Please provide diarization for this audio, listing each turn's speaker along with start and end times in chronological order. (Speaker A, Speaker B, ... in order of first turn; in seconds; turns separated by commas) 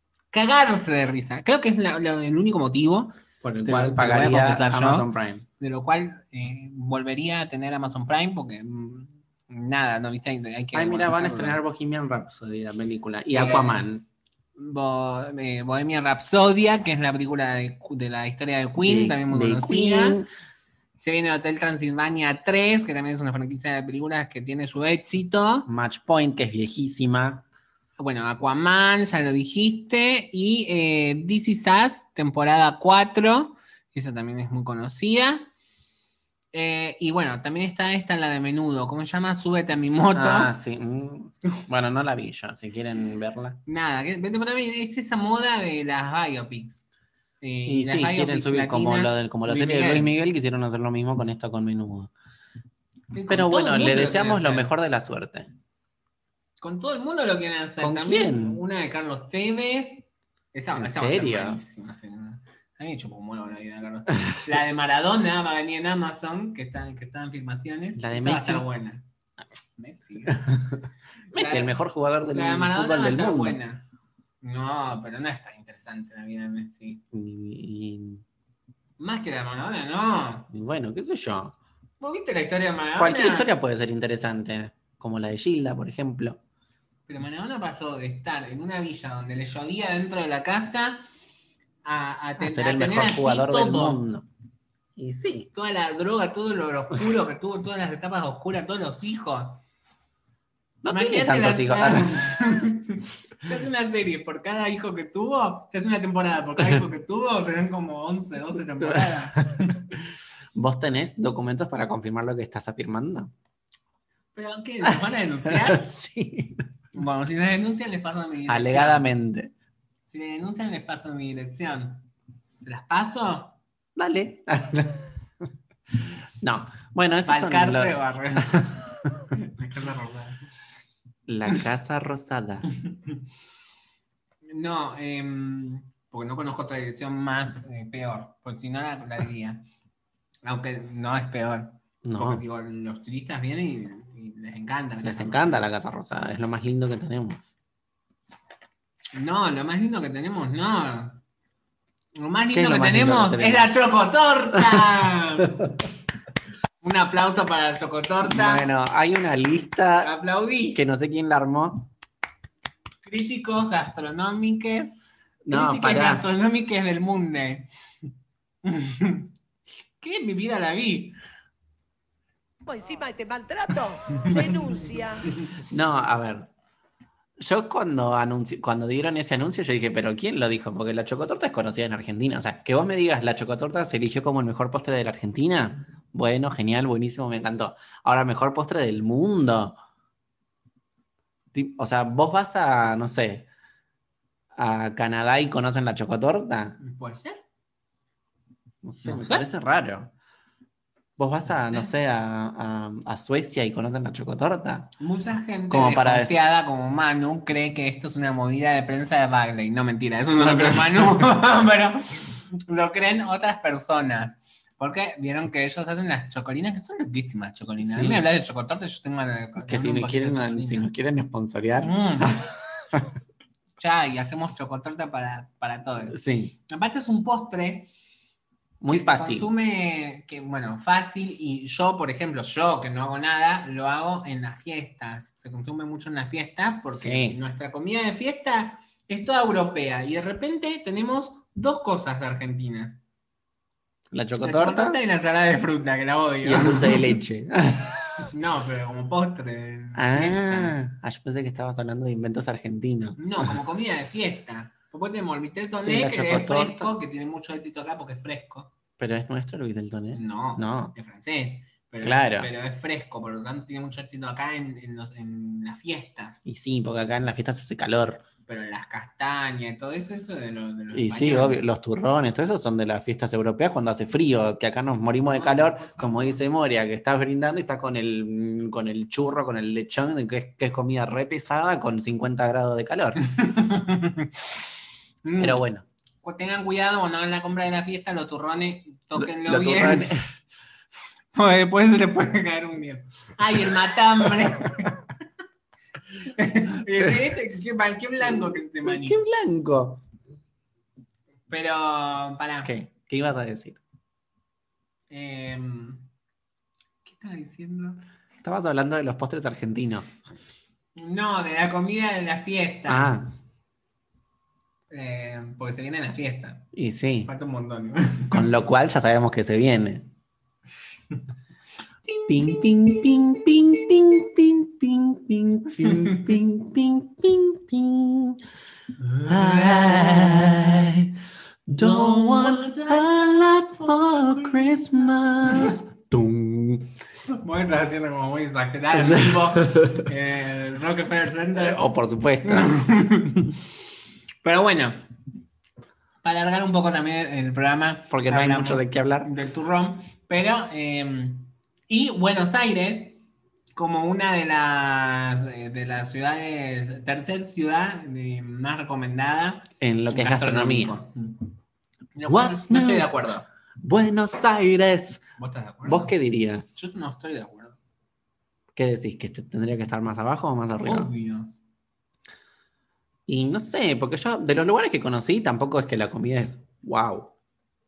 Speaker A: 0.3-5.1, Speaker B: 3.4-5.5, Speaker A: 5.6-11.6, Speaker B: 10.7-14.1, Speaker A: 13.3-13.9, Speaker A: 14.6-20.2, Speaker B: 18.8-20.3, Speaker A: 21.0-25.7, Speaker B: 25.7-27.4, Speaker A: 28.0-35.5, Speaker A: 36.5-40.5, Speaker B: 40.1-43.6, Speaker A: 43.7-46.8, Speaker A: 47.4-50.1, Speaker B: 47.7-52.1, Speaker A: 53.1-54.7, Speaker B: 53.3-55.5, Speaker A: 56.6-69.0, Speaker B: 57.8-58.6, Speaker B: 60.8-61.6, Speaker B: 68.0-68.7, Speaker A: 69.8-70.5, Speaker B: 70.3-70.8, Speaker A: 71.3-71.8, Speaker B: 71.3-73.6, Speaker A: 72.3-73.8, Speaker A: 74.4-77.0, Speaker B: 77.1-78.2, Speaker A: 79.0-80.5, Speaker B: 80.5-81.6, Speaker A: 82.0-83.5, Speaker B: 83.0-86.4, Speaker A: 87.1-91.0, Speaker A: 91.8-94.0, Speaker B: 92.4-94.3, Speaker B: 95.0-95.5, Speaker A: 95.5-99.6, Speaker B: 100.8-102.2, Speaker A: 100.9-109.8, Speaker B: 108.8-109.7, Speaker B: 110.5-113.3, Speaker A: 114.3-115.9, Speaker B: 114.8-116.7, Speaker A: 116.9-119.0, Speaker B: 118.5-119.5, Speaker A: 120.1-122.1, Speaker A: 122.6-123.6, Speaker B: 124.0-125.1, Speaker B: 126.1-128.8, Speaker A: 127.3-128.7, Speaker A: 129.3-130.4, Speaker B: 131.3-132.7, Speaker A: 132.9-133.1, Speaker A: 134.5-139.7, Speaker A: 140.4-145.7, Speaker B: 142.0-142.4, Speaker B: 145.0-147.5, Speaker A: 149.1-151.2, Speaker A: 152.2-155.6, Speaker B: 152.5-153.7, Speaker A: 156.8-158.7, Speaker B: 158.2-160.1, Speaker A: 160.0-160.8, Speaker B: 160.7-161.9, Speaker A: 163.0-165.0, Speaker B: 165.4-166.3, Speaker A: 165.5-167.7, Speaker A: 168.6-169.3, Speaker A: 170.0-171.2, Speaker C: 172.7-175.3, Speaker A: 174.1-174.7, Speaker B: 175.6-176.5, Speaker B: 177.4-189.8, Speaker B: 191.5-193.5, Speaker B: 194.6-196.8, Speaker A: 196.8-197.4, Speaker B: 198.8-200.1, Speaker A: 199.0-199.5, Speaker B: 201.2-204.9, Speaker A: 201.5-201.9, Speaker A: 205.0-220.9, Speaker B: 205.7-206.4, Speaker B: 210.4-211.3, Speaker B: 217.8-218.2, Speaker B: 219.6-223.1, Speaker A: 221.8-222.4, Speaker A: 223.8-227.9, Speaker B: 226.1-226.5, Speaker B: 228.8-229.5, Speaker A: 228.9-243.0, Speaker B: 236.9-237.4, Speaker B: 244.1-245.0, Speaker A: 244.4-247.2, Speaker B: 246.4-248.3, Speaker A: 248.3-250.8, Speaker B: 249.9-253.6, Speaker A: 253.2-258.7, Speaker B: 255.8-256.9, Speaker B: 259.0-260.9, Speaker A: 260.1-266.4, Speaker B: 262.0-262.5, Speaker B: 266.5-268.2, Speaker A: 268.5-271.6, Speaker B: 270.9-283.2, Speaker A: 275.2-276.4, Speaker A: 283.2-284.5, Speaker A: 285.2-285.6, Speaker B: 285.4-285.9, Speaker A: 286.2-290.1, Speaker B: 289.2-290.3, Speaker A: 291.3-295.0, Speaker A: 296.2-299.2, Speaker B: 298.8-300.0, Speaker A: 301.5-302.7, Speaker B: 302.6-303.8, Speaker A: 305.1-306.1, Speaker A: 307.1-308.0, Speaker B: 308.4-310.2, Speaker A: 311.0-313.2, Speaker B: 312.9-313.3, Speaker A: 314.9-316.7, Speaker B: 316.7-317.3, Speaker A: 317.3-318.5, Speaker B: 318.3-320.1, Speaker A: 322.1-324.1, Speaker B: 322.3-328.4, Speaker A: 325.8-326.3, Speaker A: 329.0-330.9, Speaker B: 329.3-336.9, Speaker A: 331.7-333.3, Speaker A: 337.3-341.9, Speaker B: 338.9-340.0, Speaker B: 341.6-342.7, Speaker A: 342.4-343.6, Speaker A: 344.4-345.1, Speaker A: 346.2-353.2, Speaker B: 348.1-349.3, Speaker A: 353.8-361.5, Speaker B: 359.8-361.0, Speaker A: 362.1-363.5, Speaker B: 362.3-363.1, Speaker B: 363.8-365.2, Speaker A: 365.4-366.1, Speaker B: 365.9-366.8, Speaker A: 366.8-367.8, Speaker B: 368.8-371.1, Speaker A: 370.8-371.5, Speaker B: 373.3-377.3